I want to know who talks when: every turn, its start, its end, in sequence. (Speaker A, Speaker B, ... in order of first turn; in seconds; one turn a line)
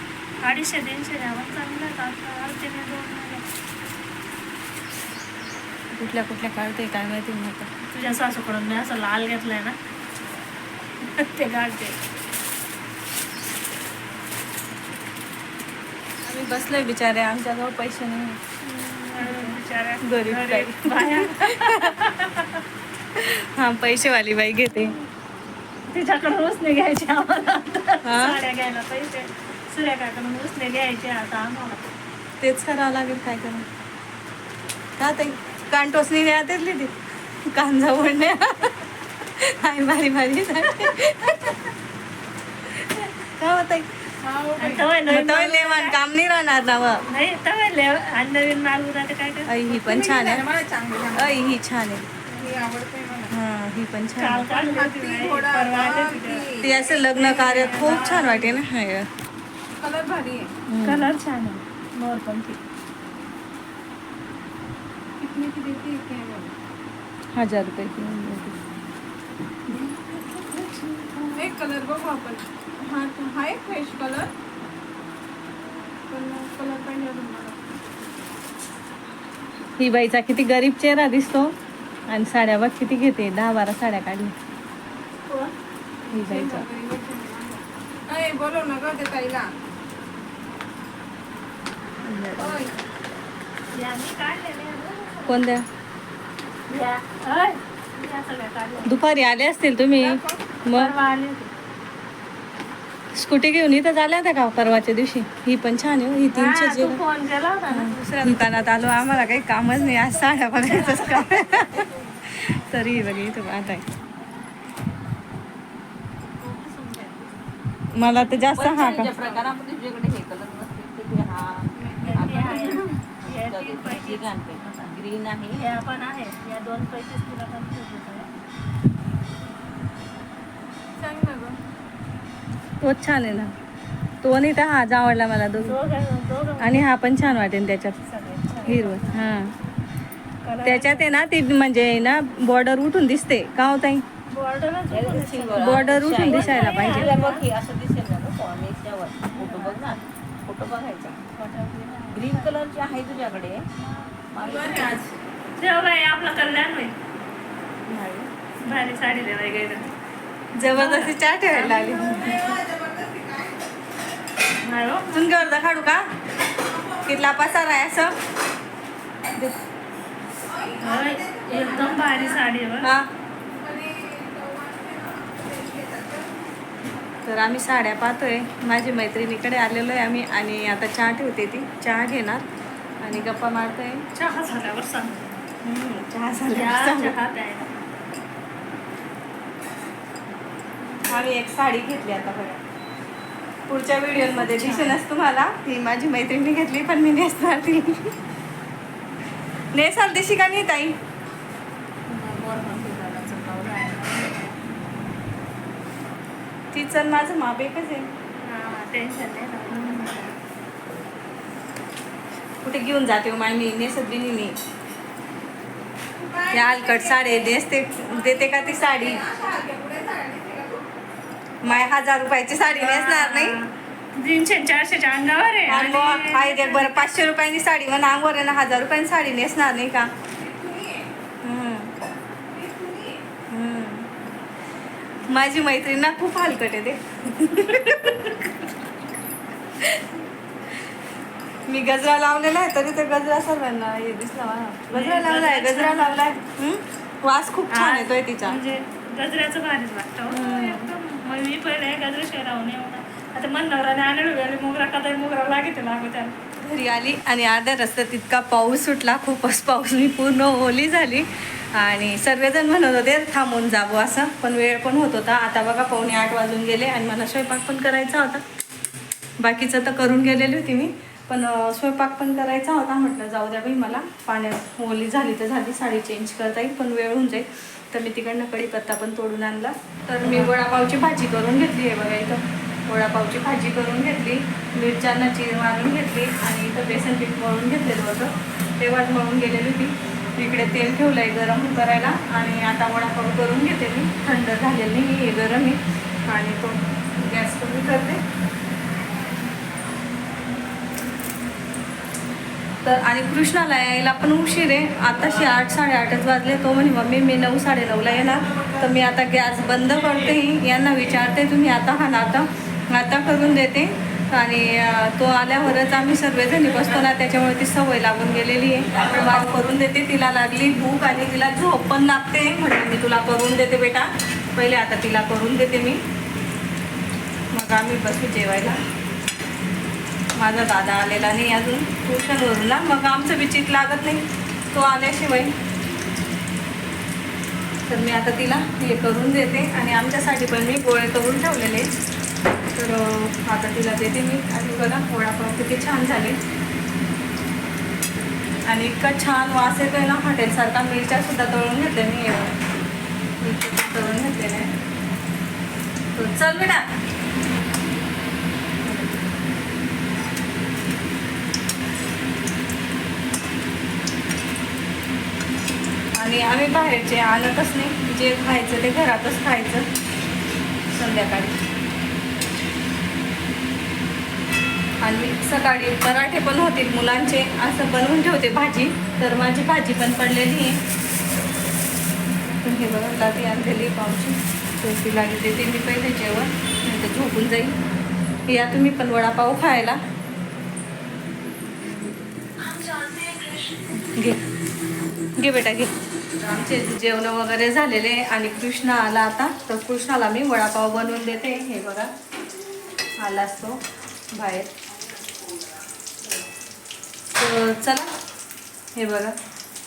Speaker A: 0.4-3.4
Speaker B: 5.9-7.7
Speaker A: 7.8-9.8
Speaker A: 11.0-12.0
Speaker B: 16.2-18.4
Speaker A: 18.6-22.6
Speaker B: 19.2-21.9
Speaker B: 23.1-24.9
Speaker A: 24.7-25.0
Speaker A: 25.9-31.8
Speaker B: 28.0-28.4
Speaker B: 32.4-33.7
Speaker B: 35.0-36.9
Speaker B: 37.5-41.7
Speaker B: 42.8-43.9
Speaker C: 44.2-44.9
Speaker A: 44.6-46.0
Speaker B: 45.1-47.0
Speaker A: 47.1-49.6
Speaker B: 49.5-50.5
Speaker C: 49.7-51.5
Speaker B: 51.1-52.0
Speaker C: 52.4-53.3
Speaker B: 53.3-54.5
Speaker A: 54.2-56.5
Speaker C: 54.4-58.3
Speaker B: 56.6-59.1
Speaker A: 57.2-58.6
Speaker C: 59.8-60.5
Speaker B: 60.7-61.1
Speaker A: 60.8-62.6
Speaker C: 65.2-66.5
Speaker B: 67.3-68.6
Speaker A: 69.7-71.3
Speaker B: 70.5-71.1
Speaker C: 71.3-74.3
Speaker C: 76.1-77.8
Speaker B: 79.8-81.5
Speaker B: 82.1-84.3
Speaker A: 85.3-85.5
Speaker C: 86.1-89.5
Speaker B: 86.1-86.7
Speaker B: 92.0-92.7
Speaker C: 92.4-92.7
Speaker A: 93.7-95.4
Speaker B: 95.2-95.7
Speaker A: 96.7-99.0
Speaker B: 98.8-100.9
Speaker C: 100.0-100.6
Speaker A: 100.7-101.5
Speaker B: 103.1-107.0
Speaker A: 106.3-108.7
Speaker B: 107.7-113.9
Speaker A: 110.7-111.2
Speaker C: 110.7-112.0
Speaker B: 117.9-119.1
Speaker A: 118.2-119.4
Speaker D: 118.5-125.6
Speaker C: 121.7-122.9
Speaker A: 122.0-124.6
Speaker A: 125.5-128.3
Speaker C: 131.0-131.6
Speaker B: 132.8-133.5
Speaker B: 134.2-135.8
Speaker A: 135.6-137.4
Speaker B: 136.6-138.0
Speaker A: 138.1-139.3
Speaker B: 138.6-139.5
Speaker A: 140.4-141.1
Speaker B: 140.6-144.0
Speaker A: 144.3-147.4
Speaker D: 144.9-151.2
Speaker B: 145.6-147.1
Speaker A: 149.2-150.1
Speaker A: 151.3-152.7
Speaker D: 152.1-153.7
Speaker A: 153.8-154.1
Speaker D: 154.3-155.0
Speaker C: 154.4-155.1
Speaker A: 155.6-157.0
Speaker B: 157.9-158.3
Speaker A: 158.6-159.9
Speaker B: 160.6-162.6
Speaker A: 160.7-162.3
Speaker C: 162.0-163.6
Speaker A: 164.6-165.3
Speaker B: 165.1-166.1
Speaker C: 166.7-167.0
Speaker B: 167.0-168.1
Speaker C: 170.4-172.5
Speaker A: 170.8-172.9
Speaker B: 172.8-173.1
Speaker C: 173.4-176.4
Speaker B: 177.2-182.4
Speaker B: 183.0-184.0
Speaker A: 184.1-185.4
Speaker B: 185.6-187.2
Speaker A: 186.5-187.8
Speaker B: 191.1-192.6
Speaker B: 193.7-198.1
Speaker A: 194.3-194.9
Speaker B: 199.7-201.0
Speaker A: 202.1-204.6
Speaker B: 206.7-208.1
Speaker A: 208.4-210.3
Speaker B: 212.6-214.6
Speaker C: 216.2-220.9
Speaker B: 216.5-219.2
Speaker B: 221.6-223.6
Speaker A: 222.7-227.1
Speaker B: 225.7-230.1
Speaker C: 230.3-231.1
Speaker B: 231.4-231.9
Speaker C: 232.5-233.2
Speaker B: 233.5-234.1
Speaker B: 235.2-238.3
Speaker B: 239.8-240.2
Speaker B: 241.7-248.6
Speaker A: 244.9-246.4
Speaker A: 247.7-256.4
Speaker B: 250.3-250.9
Speaker B: 256.6-268.4
Speaker B: 269.4-298.2
Speaker A: 280.2-280.5
Speaker B: 302.8-326.0
Speaker B: 327.5-328.8
Speaker B: 330.4-335.5
Speaker B: 337.9-341.9
Speaker B: 342.7-346.4
Speaker B: 348.7-352.6
Speaker B: 353.4-354.7
Speaker B: 356.1-356.9
Speaker B: 358.9-359.1
Speaker B: 366.1-369.9
Speaker B: 370.9-371.6
Speaker B: 375.0-380.8
Speaker B: 382.6-387.8
Speaker B: 388.5-390.0
Speaker B: 393.9-394.4
Speaker B: 395.4-402.1
Speaker B: 403.2-403.8
Speaker B: 404.3-404.7
Speaker B: 407.3-408.1
Speaker B: 408.9-409.3